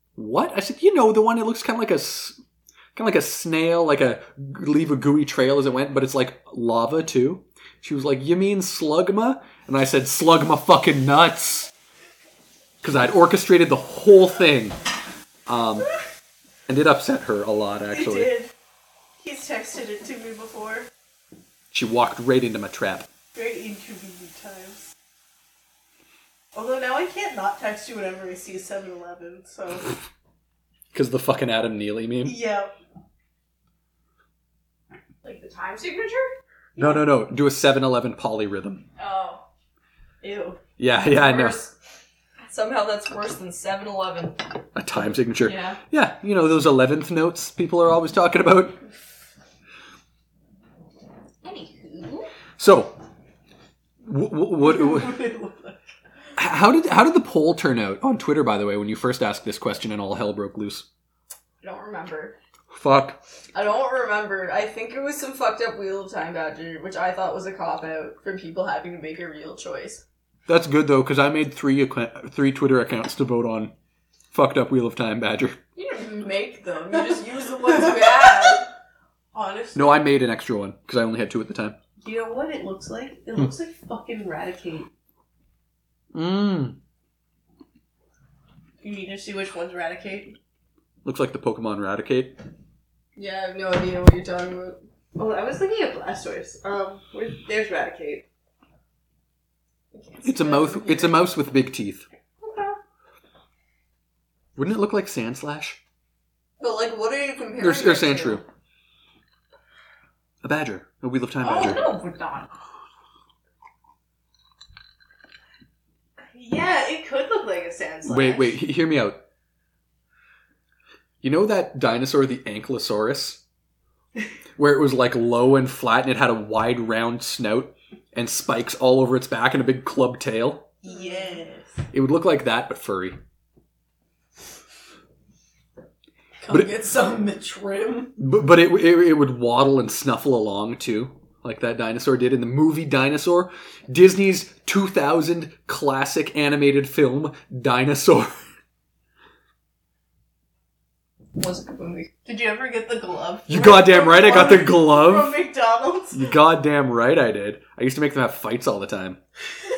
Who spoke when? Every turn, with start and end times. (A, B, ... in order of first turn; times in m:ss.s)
0:00.2-0:02.4 A
0:03.0-0:11.7 A
0:12.8-0:14.8 A
0:15.5-0:15.9 A
0:16.7-0:18.3 A
0:17.9-0:18.5 B
0:19.2-0:20.9 B
0:21.7-0:23.1 A
0:23.4-0:24.9 B
0:26.5-0:29.9 B
0:30.9-0:32.4 A
0:32.2-0:32.8 B
0:35.2-0:36.3 C
0:36.8-0:37.0 B
0:36.8-0:38.8 A
0:39.0-0:39.4 C
0:40.2-0:40.6 B
0:40.8-0:41.7 A
0:41.0-0:41.8 C
0:42.4-0:44.4 C
0:44.8-0:48.8 A
0:45.4-0:45.8 C
0:51.4-0:52.3 C
0:52.6-0:53.0 A
0:54.0-0:55.2 A
0:54.6-0:55.8 B
0:56.4-1:00.9 A
1:01.6-1:02.4 C
1:02.7-1:03.2 A
1:03.5-1:10.0 C
1:10.5-1:13.7 A
1:14.3-1:15.6 A
1:15.8-1:18.7 C
1:19.3-1:20.1 B
1:19.8-1:21.8 A
1:22.0-1:24.9 B
1:26.1-1:26.8 A
1:28.8-1:30.4 B
1:31.0-1:32.4 A
1:33.2-1:34.8 C
1:35.2-1:38.2 B
1:39.9-1:41.2 C
1:40.2-1:42.1 A
1:42.4-1:42.8 B
1:44.6-1:45.8 A
1:46.6-1:48.4 C
1:47.6-1:48.4 A
1:50.4-1:51.9 A
1:51.4-1:52.4 B
1:51.6-1:52.4 C
1:56.3-1:58.6 B
1:58.0-1:59.2 A
2:01.2-2:03.4 A
2:04.6-2:10.7 A
2:10.8-2:11.8 B
2:10.9-2:11.4 C
2:11.9-2:13.2 A
2:16.4-2:18.2 C
2:18.2-2:28.4 A
2:31.4-2:32.1 C
2:32.2-2:36.3 B
2:33.5-2:35.4 A
2:36.1-2:39.2 A